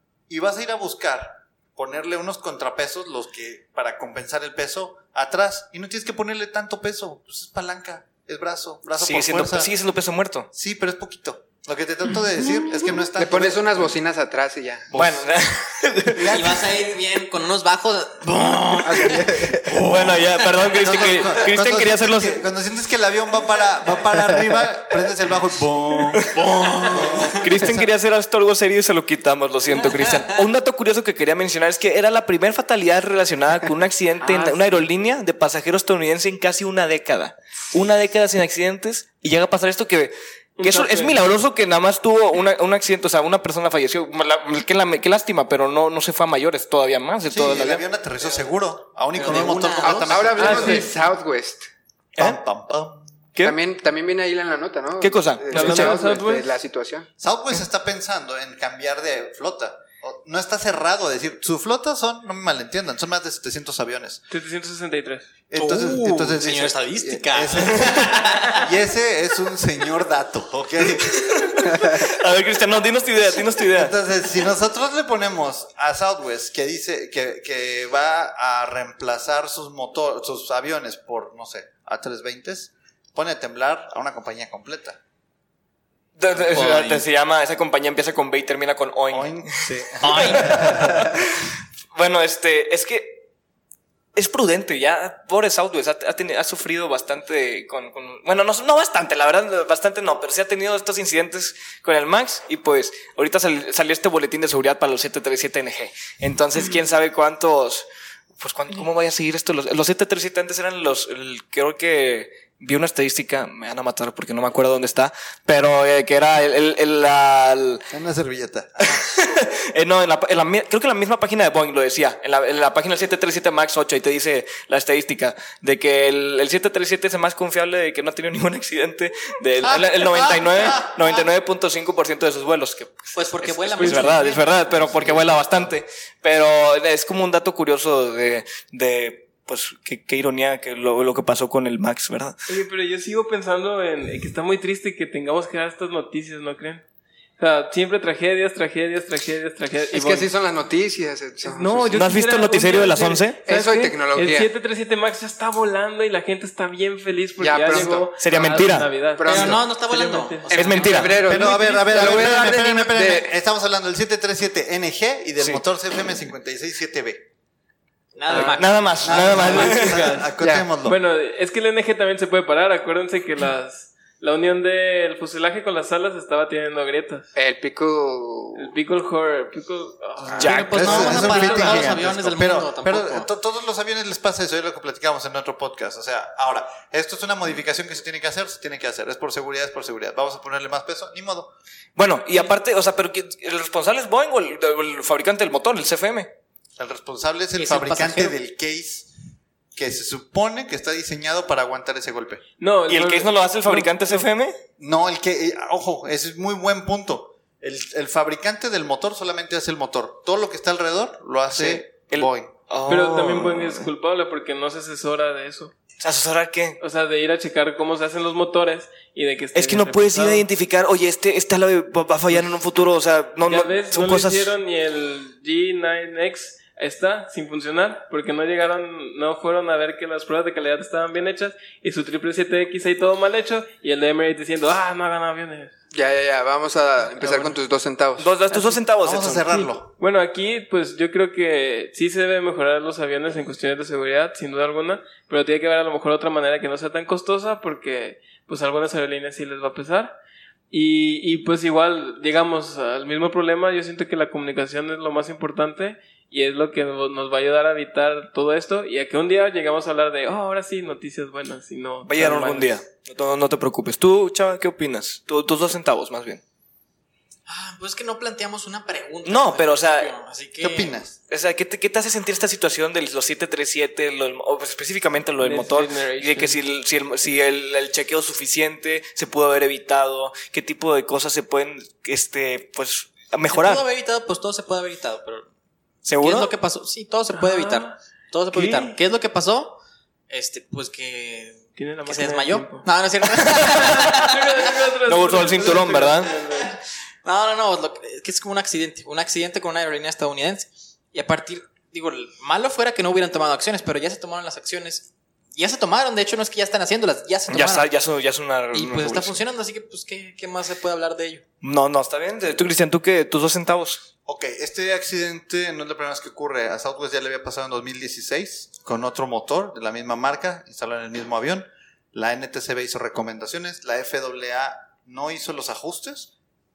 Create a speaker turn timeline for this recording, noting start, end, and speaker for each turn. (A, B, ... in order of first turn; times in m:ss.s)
0:00.3-0:09.7 A
0:09.0-0:10.5 B
0:10.5-0:14.0 A
0:13.2-0:15.2 C
0:14.9-0:16.6 B
0:16.2-0:19.5 D
0:18.8-0:20.0 C
0:19.7-0:22.4 B
0:20.0-0:21.4 D
0:20.8-0:27.8 A
0:26.2-0:26.4 B
0:26.6-0:27.3 D
0:27.2-0:47.8 B
0:34.2-0:34.8 E
0:40.6-0:41.2 E
0:47.3-0:51.0 A
0:49.1-0:50.6 D
0:49.8-0:51.7 C
0:50.4-0:50.9 E
0:52.2-0:53.1 A
0:53.4-0:57.1 C
0:55.0-0:56.0 B
0:55.5-0:56.5 E
0:57.2-1:04.2 A
1:04.3-1:05.2 E
1:05.5-1:11.7 A
1:05.5-1:08.6 D
1:11.2-1:13.9 B
1:13.7-1:25.0 A
1:26.2-1:29.5 B
1:26.5-1:27.1 D
1:29.1-1:31.2 A
1:30.0-1:31.0 D
1:30.1-1:30.8 B
1:31.9-1:33.2 B
1:34.1-1:47.9 B
1:48.4-1:57.9 B
1:57.9-1:59.0 A
1:59.0-2:22.4 B
2:09.7-2:11.2 A
2:13.1-2:15.7 D
2:13.7-2:14.3 E
2:22.5-2:26.8 E
2:27.4-2:30.3 E
2:29.9-2:31.9 C
2:31.4-2:41.0 E
2:31.9-2:33.4 B
2:33.4-2:34.5 C
2:37.4-2:38.1 C
2:38.2-2:38.9 B
2:39.2-2:39.7 C
2:39.2-2:41.4 D
2:40.5-2:43.3 C
2:40.5-2:41.2 B
2:41.2-2:47.3 A
2:48.2-2:49.2 D
2:48.3-2:50.3 E
2:48.4-2:50.0 B
2:49.0-2:51.0 A
2:50.4-2:50.7 C
2:50.8-2:57.3 E
2:57.3-2:58.7 C
2:58.6-3:01.5 E
3:00.4-3:00.8 B
3:00.4-3:03.2 D
3:00.7-3:11.5 A
3:12.0-3:16.3 B
3:16.8-3:19.1 A
3:17.6-3:18.4 D
3:19.7-3:22.4 A
3:22.6-3:24.2 E
3:22.9-3:24.5 B
3:24.8-3:32.5 A
3:31.5-3:33.9 B
3:32.9-3:35.7 E
3:36.0-3:36.8 B
3:36.8-3:40.5 E
3:39.5-3:44.5 B
3:43.4-3:55.7 E
3:55.9-3:58.3 C
3:57.2-3:57.5 E
3:58.2-3:59.6 B
3:58.5-3:58.8 E
3:59.0-3:59.9 A
4:00.0-4:10.1 E
4:10.7-4:22.8 E
4:22.0-4:26.4 B
4:27.5-4:30.9 D
4:29.2-4:30.1 B
4:30.6-4:31.1 A
4:31.3-4:43.8 B
4:35.4-4:36.6 E
4:43.4-4:45.5 D
4:46.0-4:46.5 B
4:46.2-4:49.8 D
4:47.3-4:48.0 E
4:48.5-4:49.0 E
4:50.3-4:54.6 D
4:51.7-4:52.9 E
4:53.6-4:56.7 E
4:55.0-4:56.4 B
4:57.2-5:07.9 D
5:07.5-5:09.4 B
5:08.7-5:11.4 D
5:11.6-5:14.0 B
5:14.2-5:26.3 A